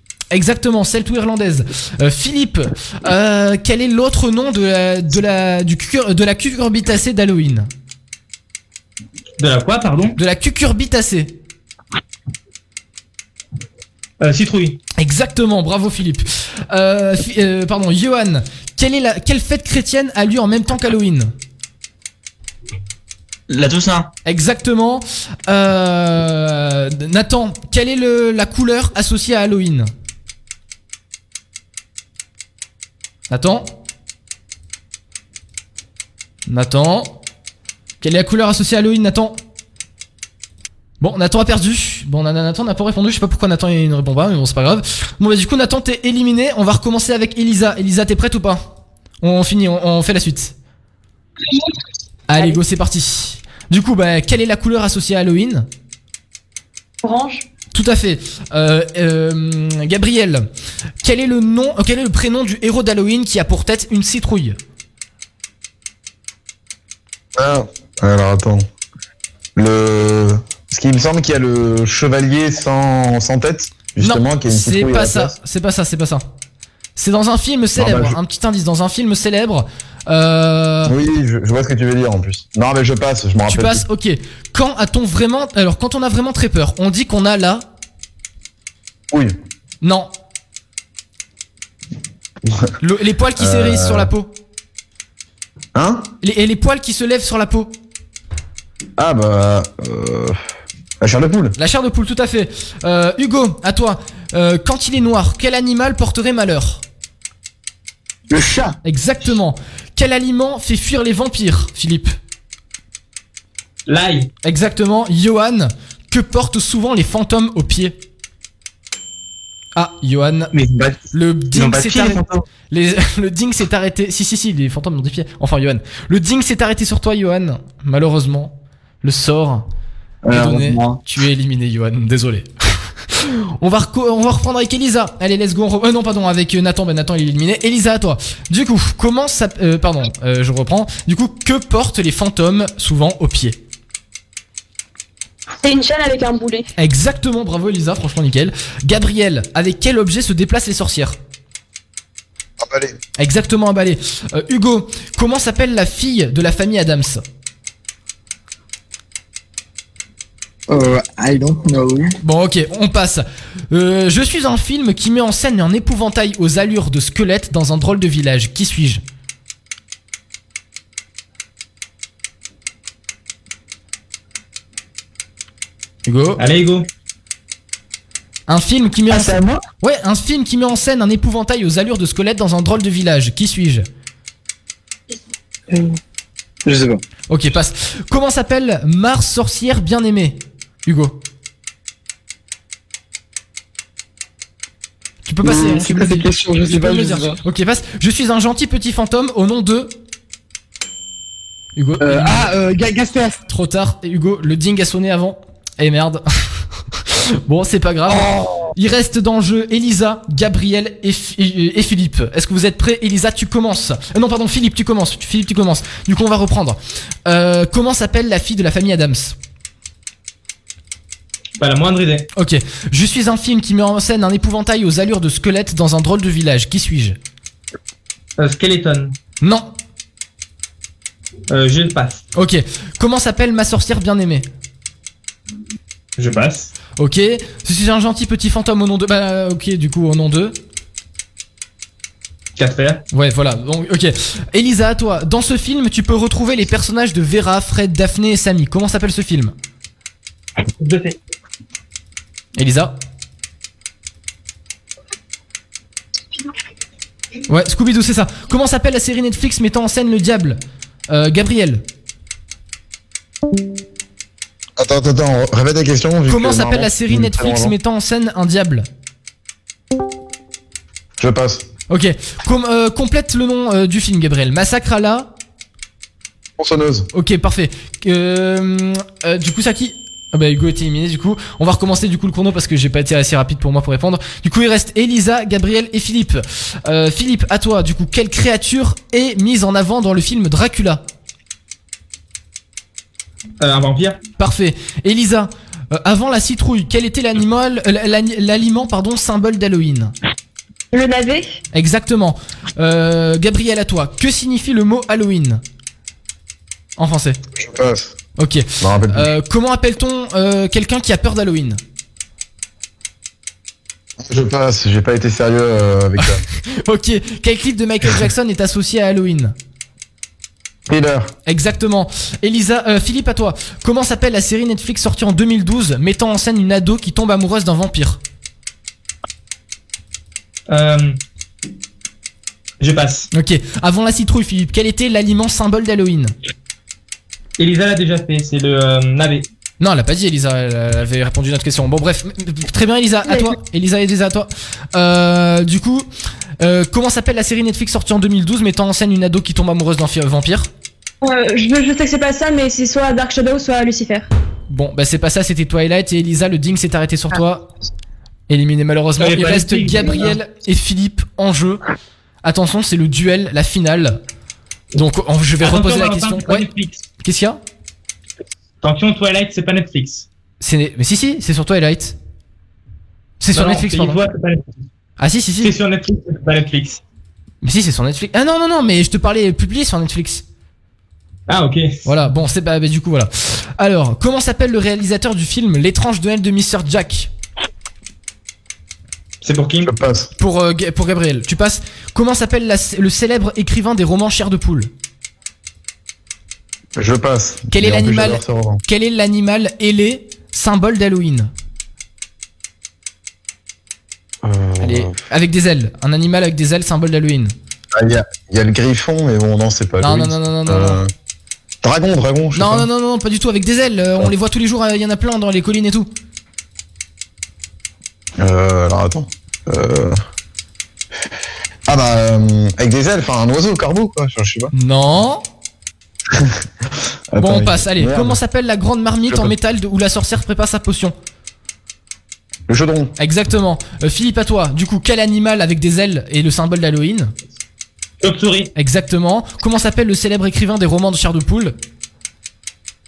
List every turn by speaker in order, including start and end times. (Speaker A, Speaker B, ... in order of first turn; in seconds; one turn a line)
Speaker A: 0.3-7.7
Speaker B: 9.4-10.2
Speaker A: 10.2-11.4
Speaker B: 14.2-14.8
Speaker A: 15.0-21.3
Speaker C: 23.5-24.1
Speaker A: 24.3-29.9
Speaker A: 33.3-33.8
Speaker A: 36.5-37.2
Speaker A: 38.0-39.4
Speaker A: 41.0-48.7
Speaker A: 49.2-50.5
Speaker A: 52.3-55.7
Speaker D: 57.0-57.5
Speaker A: 57.7-60.5
Speaker A: 61.0-64.6
Speaker E: 67.4-68.7
Speaker E: 69.6-75.3
Speaker A: 74.0-76.2
Speaker A: 77.0-81.0
Speaker E: 77.8-78.2
Speaker E: 80.9-83.8
Speaker A: 83.5-87.7
Speaker E: 89.1-89.4
Speaker A: 89.8-90.1
Speaker E: 92.5-92.7
Speaker A: 92.8-94.3
Speaker E: 93.4-94.1
Speaker E: 95.8-96.1
Speaker A: 96.2-97.7
Speaker E: 99.0-100.5
Speaker E: 101.0-101.5
Speaker A: 101.6-106.8
Speaker F: 108.3-108.8
Speaker A: 108.8-112.1
Speaker B: 113.9-114.3
Speaker A: 114.5-118.0
Speaker A: 119.8-120.5
Speaker C: 120.5-122.4
Speaker A: 121.1-129.7
Speaker C: 130.2-131.0
Speaker A: 130.3-143.6
Speaker D: 145.6-146.7
Speaker A: 146.8-151.2
Speaker E: 152.6-153.0
Speaker A: 153.2-157.2
Speaker F: 160.7-162.2
Speaker A: 162.2-169.0
Speaker A: 176.1-176.4
Speaker B: 176.4-176.9
Speaker A: 178.5-183.9
Speaker F: 179.1-179.6
Speaker F: 185.7-186.0
Speaker F: 186.7-187.0
Speaker A: 187.3-191.2
Speaker A: 195.3-199.9
Speaker F: 195.4-197.4
Speaker A: 201.8-202.5
Speaker F: 202.0-203.4
Speaker A: 203.5-219.3
Speaker F: 208.1-208.7
Speaker B: 221.6-222.3
Speaker A: 222.3-227.2
Speaker B: 228.4-229.2
Speaker A: 229.4-229.7
Speaker B: 231.5-232.2
Speaker A: 232.3-234.5
Speaker B: 236.2-236.7
Speaker A: 237.0-240.6
Speaker B: 242.6-243.0
Speaker A: 243.1-249.5
Speaker B: 250.8-251.2
Speaker A: 252.6-253.0
Speaker A: 257.5-260.6
Speaker A: 261.1-261.8
Speaker E: 264.8-267.8
Speaker A: 266.3-268.9
Speaker E: 271.2-271.7
Speaker A: 271.9-275.3
Speaker E: 276.6-277.1
Speaker A: 277.1-291.0
Speaker B: 293.6-294.2
Speaker A: 294.4-300.1
Speaker D: 300.9-301.6
Speaker A: 301.7-305.6
Speaker A: 307.0-307.4
Speaker E: 307.6-308.2
Speaker A: 308.4-311.8
Speaker E: 308.8-309.3
Speaker E: 314.2-316.4
Speaker A: 316.2-319.6
Speaker E: 320.9-321.3
Speaker A: 321.5-328.2
Speaker B: 330.7-331.2
Speaker B: 332.8-333.3
Speaker A: 333.3-336.3
Speaker B: 337.6-339.5
Speaker A: 339.8-346.1
Speaker D: 343.3-343.5
Speaker A: 346.6-350.7
Speaker D: 351.2-354.3
Speaker A: 354.7-357.7
Speaker A: 358.5-361.8
Speaker B: 359.2-360.4
Speaker A: 362.4-364.2
Speaker A: 364.9-366.7
Speaker B: 365.6-367.0
Speaker A: 367.2-367.6
Speaker B: 368.8-370.3
Speaker A: 370.6-372.2
Speaker A: 373.4-374.2
Speaker B: 373.6-374.6
Speaker A: 375.2-375.8
Speaker B: 375.6-377.0
Speaker A: 377.6-380.4
Speaker B: 381.5-382.0
Speaker A: 382.1-387.3
Speaker B: 389.4-389.9
Speaker E: 389.8-390.3
Speaker A: 390.4-394.9
Speaker E: 397.0-398.8
Speaker A: 397.7-401.5
Speaker E: 404.4-405.2
Speaker A: 404.8-407.5
Speaker E: 407.9-411.1
Speaker A: 410.0-411.0
Speaker E: 411.8-412.9
Speaker A: 412.6-416.1
Speaker E: 418.4-420.2
Speaker E: 421.9-424.7
Speaker A: 424.7-425.4
Speaker E: 426.3-428.4
Speaker A: 427.4-431.1
Speaker E: 432.7-433.1
Speaker A: 433.2-437.3
Speaker B: 438.2-438.7
Speaker A: 438.8-441.8